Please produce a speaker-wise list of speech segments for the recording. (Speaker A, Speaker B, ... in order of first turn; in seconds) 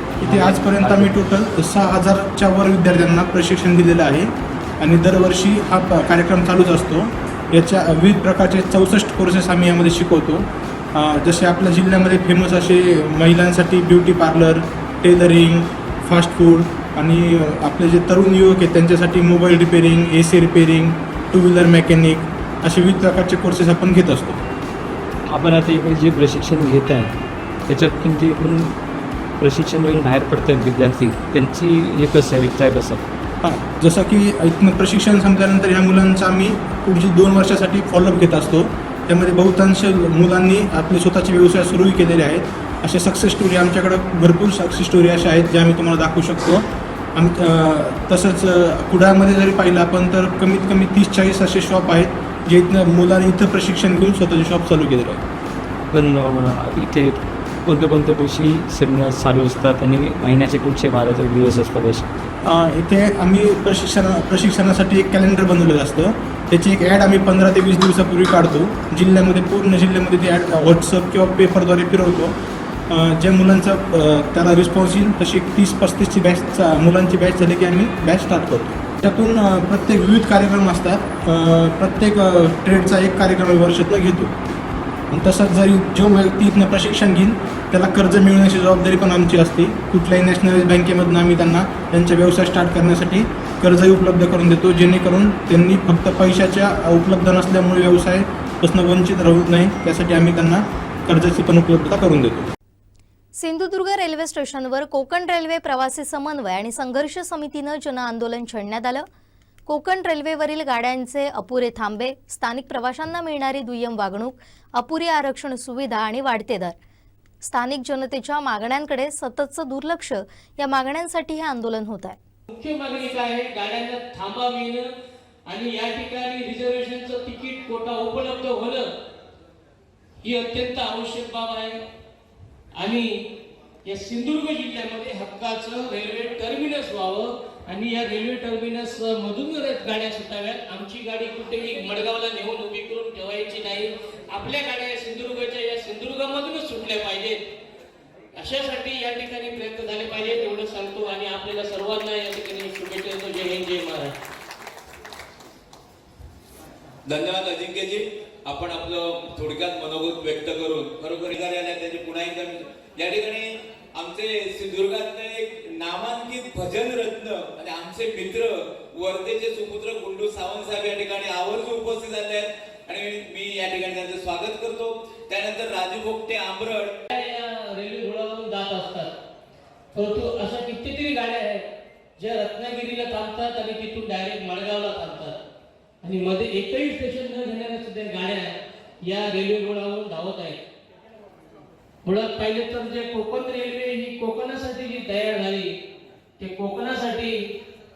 Speaker A: 0.2-1.1, 25.3-27.1, 27.7-28.8, 29.4-33.0, 55.9-62.1
Speaker B: 0.2-24.4, 33.4-55.2, 62.4-72.4, 72.9-84.3, 85.1-102.5
Speaker C: 103.4-109.1, 109.7-116.8, 117.4-122.2
Speaker D: 122.5-124.9, 125.5-128.9, 130.2-131.8, 132.8-133.2, 133.8-147.4, 148.4-154.1, 177.1-179.1, 179.9-181.7, 182.2-185.4, 186.0-190.6, 192.0-195.7, 196.4-197.4
Speaker E: 157.1-177.0